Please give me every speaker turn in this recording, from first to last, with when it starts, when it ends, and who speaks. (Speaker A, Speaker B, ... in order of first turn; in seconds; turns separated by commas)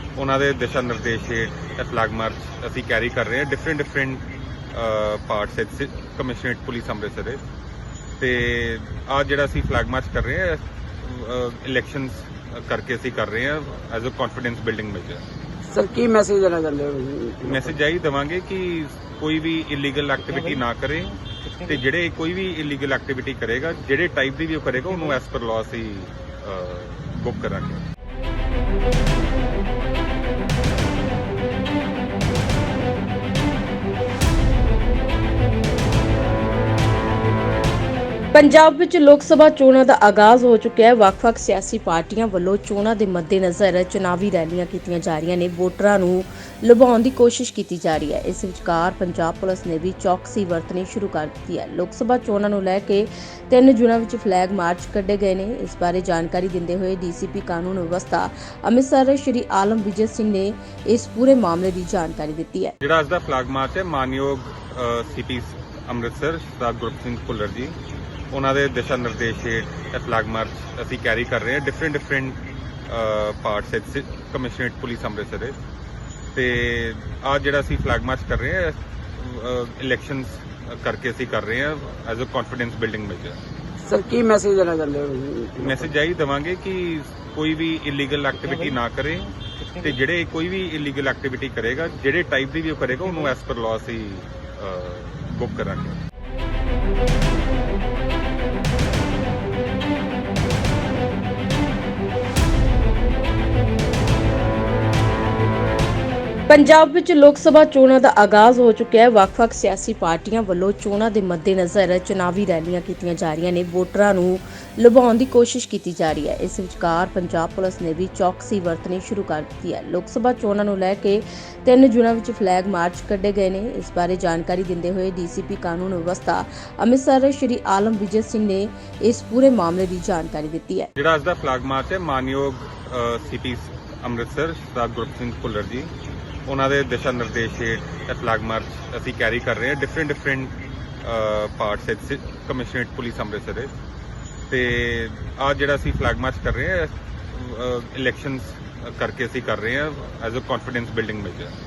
Speaker A: 0.2-7.4, Speaker A: 8.2-15.2, Speaker B: 15.7-17.8, Speaker A: 17.5-27.8, Speaker C: 38.3-62.7, Speaker A: 62.8-67.8, Speaker A: 68.3-72.4, Speaker A: 72.9-75.6, Speaker A: 76.3-83.4, Speaker B: 83.8-85.9, Speaker A: 85.6-96.0, Speaker C: 106.5-130.9, Speaker A: 131.0-135.9, Speaker A: 136.5-143.7, Speaker A: 144.5-151.5